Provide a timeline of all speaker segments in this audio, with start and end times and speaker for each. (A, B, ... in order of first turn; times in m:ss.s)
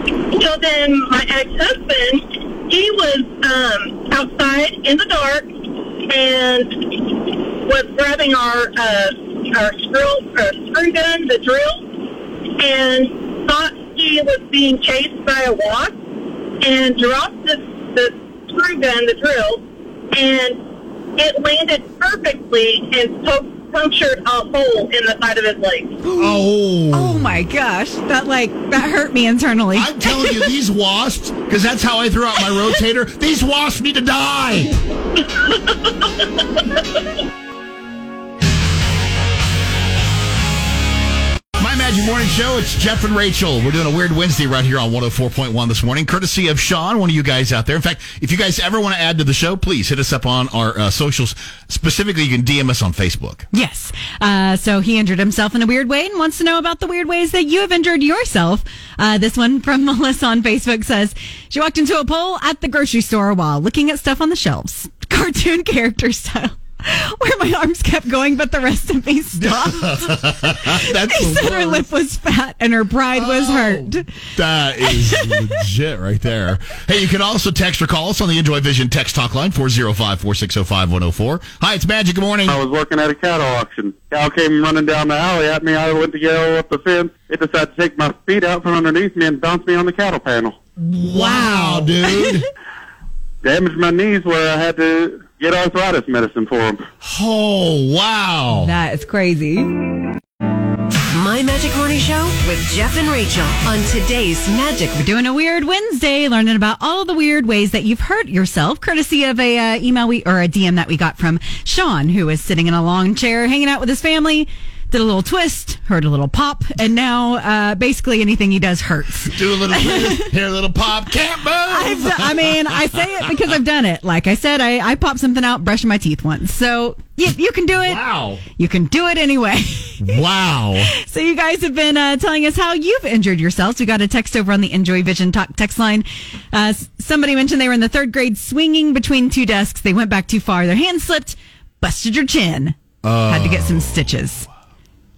0:00.3-0:05.5 A
0:06.1-0:11.9 A
0:12.6-0:16.0 A
0:16.6-0:20.6 A
0:21.2-0:26.0 A
0:26.1-0:27.3 B
0:26.2-0:30.5 C
0:29.7-0:34.8 B
0:41.6-0:53.5 B
0:53.5-1:14.1 C
1:09.4-1:11.9 B
1:13.1-1:22.6 B
1:14.8-1:15.5 C
1:22.4-1:30.6 D
1:30.8-1:32.4 B
1:31.1-1:32.4 C
1:33.4-1:36.8 D
1:37.0-1:38.7 B
1:38.6-1:39.7 C
1:41.1-1:45.0 E
1:45.0-2:00.3 C
1:59.2-2:03.3 B
2:01.7-2:10.2 C
2:07.8-2:08.4 B
2:10.0-2:10.9 B
2:10.9-2:24.5 C
2:23.0-2:24.1 B